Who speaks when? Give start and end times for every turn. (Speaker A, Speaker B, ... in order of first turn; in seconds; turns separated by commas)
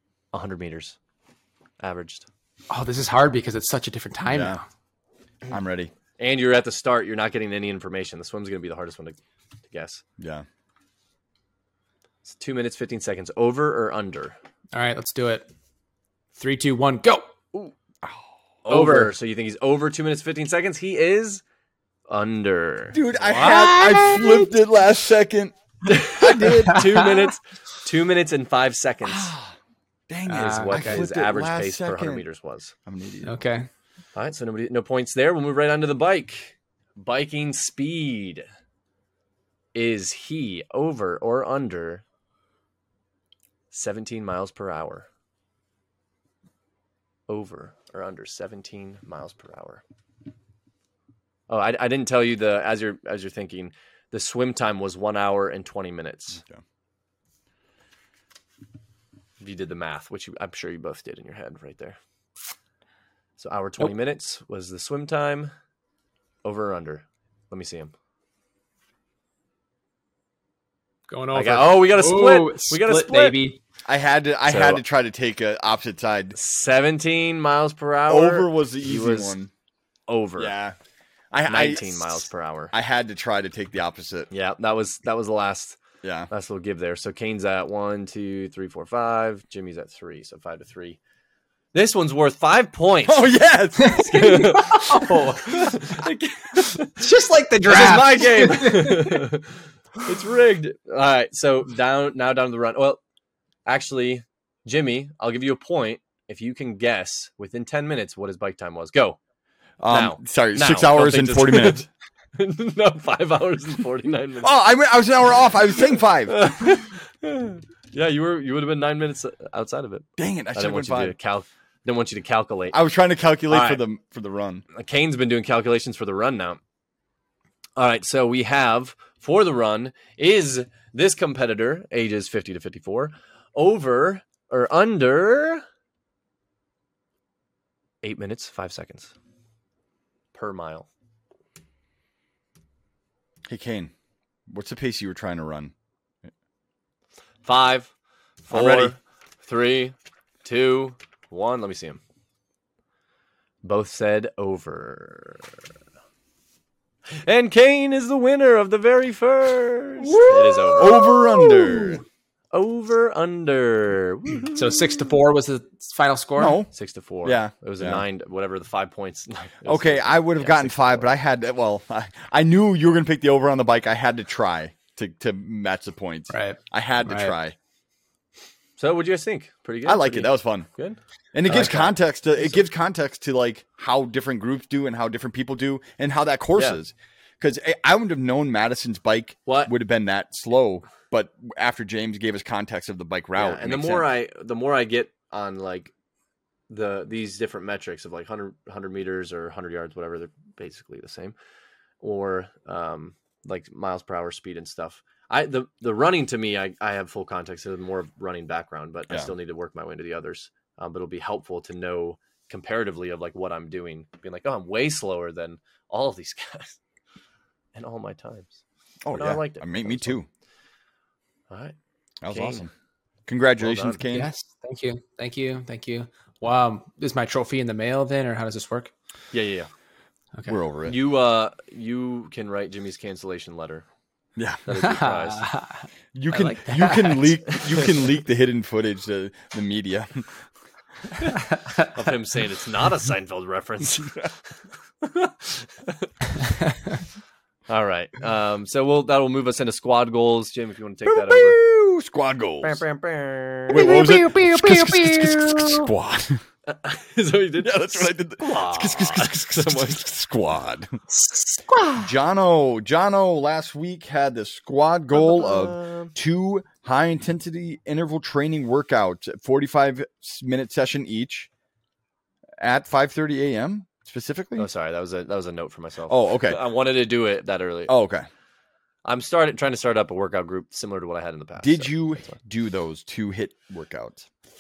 Speaker A: 0.3-1.0, Speaker A: 1.8-2.3, Speaker B: 2.7-4.6, Speaker C: 4.3-4.6, Speaker C: 5.5-5.9, Speaker A: 6.2-10.0, Speaker C: 10.2-10.4, Speaker A: 12.2-14.3, Speaker B: 14.7-15.5, Speaker B: 16.4-17.3, Speaker C: 18.0-18.8, Speaker A: 18.6-21.4, Speaker B: 18.7-19.1, Speaker A: 22.1-23.0, Speaker C: 22.9-26.9, Speaker B: 23.2-24.5, Speaker A: 25.9-29.3, Speaker B: 26.4-27.3, Speaker C: 29.0-29.6, Speaker C: 30.1-32.2, Speaker B: 30.3-31.0, Speaker A: 30.5-32.7, Speaker C: 32.9-33.3, Speaker B: 33.2-33.7, Speaker A: 34.1-38.4, Speaker A: 39.7-42.0, Speaker A: 43.7-45.1, Speaker A: 47.3-49.8, Speaker A: 51.5-56.4, Speaker A: 59.4-62.0, Speaker A: 63.4-65.5, Speaker A: 66.4-67.9, Speaker B: 71.1-73.6, Speaker A: 71.3-73.4, Speaker C: 73.8-76.3, Speaker A: 74.4-74.8, Speaker A: 76.3-79.4, Speaker C: 78.1-79.5, Speaker A: 80.1-80.5, Speaker C: 80.4-80.8, Speaker C: 81.3-84.3, Speaker A: 81.5-82.7, Speaker A: 84.3-85.8, Speaker C: 86.0-86.3, Speaker A: 86.3-91.0, Speaker A: 91.7-97.0, Speaker C: 93.0-94.5, Speaker B: 93.8-96.0, Speaker B: 97.0-99.2, Speaker A: 97.7-103.0, Speaker A: 103.7-109.2, Speaker C: 109.8-111.9, Speaker A: 109.9-114.5, Speaker C: 114.4-116.4, Speaker A: 116.3-122.8, Speaker C: 120.2-121.1, Speaker C: 122.7-124.6, Speaker A: 123.5-123.8, Speaker A: 124.7-126.6, Speaker A: 127.8-135.6, Speaker A: 138.0-139.1, Speaker A: 140.3-140.9, Speaker C: 143.4-143.9, Speaker C: 144.5-145.7, Speaker A: 147.4-147.9, Speaker A: 148.4-152.0, Speaker C: 148.5-148.9, Speaker A: 153.6-155.5, Speaker A: 157.1-161.1, Speaker B: 160.1-162.0, Speaker C: 160.1-162.0, Speaker A: 162.5-165.2, Speaker B: 164.5-166.6, Speaker C: 166.4-166.7, Speaker A: 166.7-171.1, Speaker C: 167.2-168.0, Speaker C: 169.7-177.6, Speaker B: 176.3-177.3, Speaker A: 178.8-182.6, Speaker C: 179.8-180.7, Speaker C: 181.3-194.1, Speaker A: 189.5-189.7, Speaker A: 193.3-195.9, Speaker A: 196.7-201.3, Speaker A: 202.0-216.8, Speaker A: 217.7-218.6, Speaker C: 219.0-220.3, Speaker A: 219.1-220.2, Speaker A: 221.5-221.8, Speaker C: 222.2-222.7, Speaker A: 222.3-222.7, Speaker C: 223.3-224.3, Speaker A: 223.6-224.0, Speaker B: 224.1-228.9, Speaker A: 229.3-229.7, Speaker C: 230.5-231.0, Speaker A: 230.8-233.8, Speaker C: 234.4-234.6, Speaker A: 234.7-235.4, Speaker B: 234.7-237.4, Speaker C: 236.1-240.4, Speaker A: 237.5-238.0, Speaker B: 241.2-241.9, Speaker A: 241.9-244.4, Speaker A: 245.0-246.0, Speaker A: 247.7-251.6, Speaker C: 251.0-252.8, Speaker A: 252.6-253.8, Speaker C: 253.7-256.4, Speaker B: 253.7-255.9, Speaker A: 256.6-260.0, Speaker C: 257.6-260.9, Speaker B: 261.1-262.1, Speaker C: 262.0-271.5, Speaker A: 265.1-266.1, Speaker C: 272.6-274.7, Speaker A: 274.6-277.9, Speaker C: 276.1-276.6, Speaker C: 277.9-278.2, Speaker A: 279.0-282.3, Speaker C: 281.6-284.3